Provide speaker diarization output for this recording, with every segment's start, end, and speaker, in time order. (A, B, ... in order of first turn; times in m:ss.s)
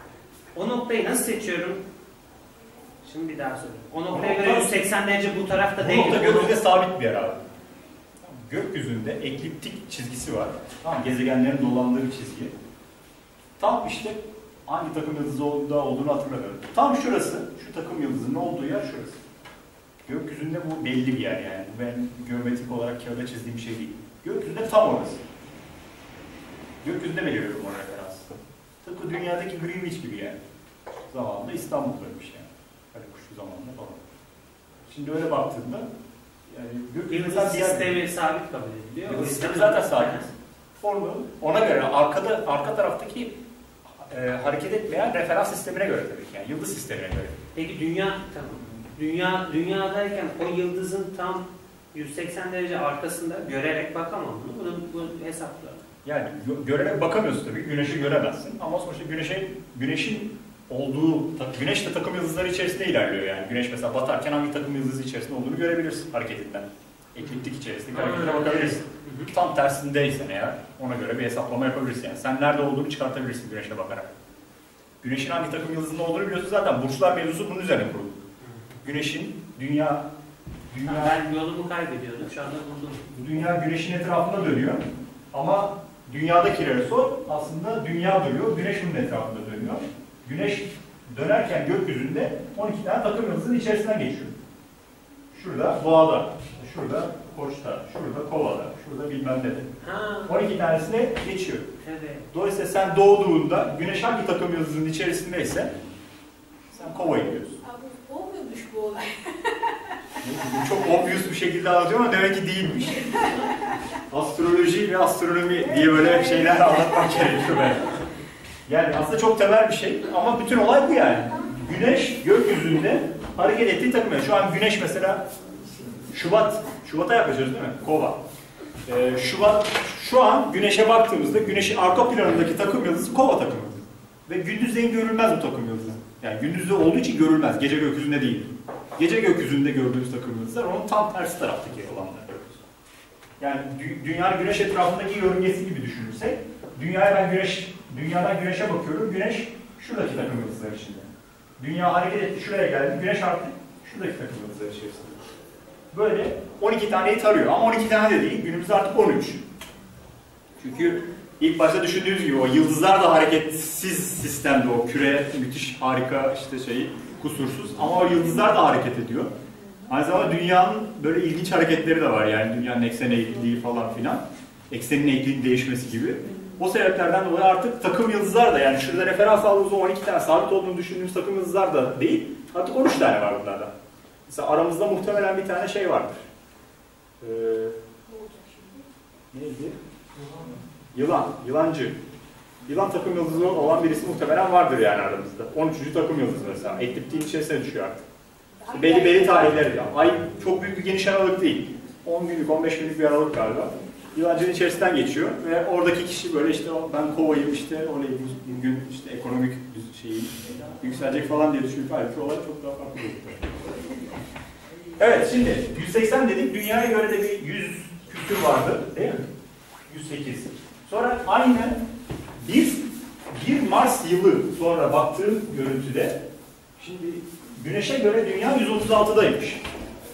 0:00.5-0:01.8 A
0:03.0-0:06.6 A
0:04.1-0:04.7 B
0:05.8-0:07.4 B
0:08.2-0:12.5 B
0:13.6-0:19.2 B
0:20.0-0:25.2 B
0:26.8-0:28.3 B
0:28.8-0:30.4 B
0:31.1-0:34.0 B
0:34.8-0:35.9 B
0:36.5-0:38.0 B
0:37.1-0:40.3 A
0:39.0-0:43.4 B
0:44.0-0:47.4 B
0:47.5-0:55.8 A
0:56.0-1:14.1 B
1:07.9-1:09.3 A
1:15.0-1:18.2 B
1:18.8-1:20.1 B
1:20.7-1:21.2 B
1:20.8-1:23.1 A
1:23.1-1:34.4 B
1:35.3-1:39.7 B
1:39.8-1:40.4 A
1:40.3-1:41.7 B
1:41.8-1:42.3 A
1:42.3-1:45.7 B
1:46.7-1:47.6 B
1:47.6-1:50.9 C
1:50.2-1:53.2 B
1:53.1-1:53.8 C
1:54.1-1:58.0 B
1:55.5-1:57.7 C
1:58.7-2:05.2 B
2:06.1-2:08.2 B
2:08.8-2:22.6 B
2:23.4-2:35.2 B
2:35.9-2:39.4 B
2:40.6-2:49.3 B
2:49.9-3:03.7 B
3:04.3-3:06.2 B
3:07.2-3:07.7 B
3:08.1-3:08.9 C
3:09.3-3:09.8 B
3:10.9-3:12.0 B
3:12.6-3:18.0 B
3:18.6-3:19.5 C
3:18.7-3:33.6 B
3:35.0-3:39.3 B
3:39.9-3:41.8 B
3:42.4-3:46.2 B
3:46.8-3:49.6 B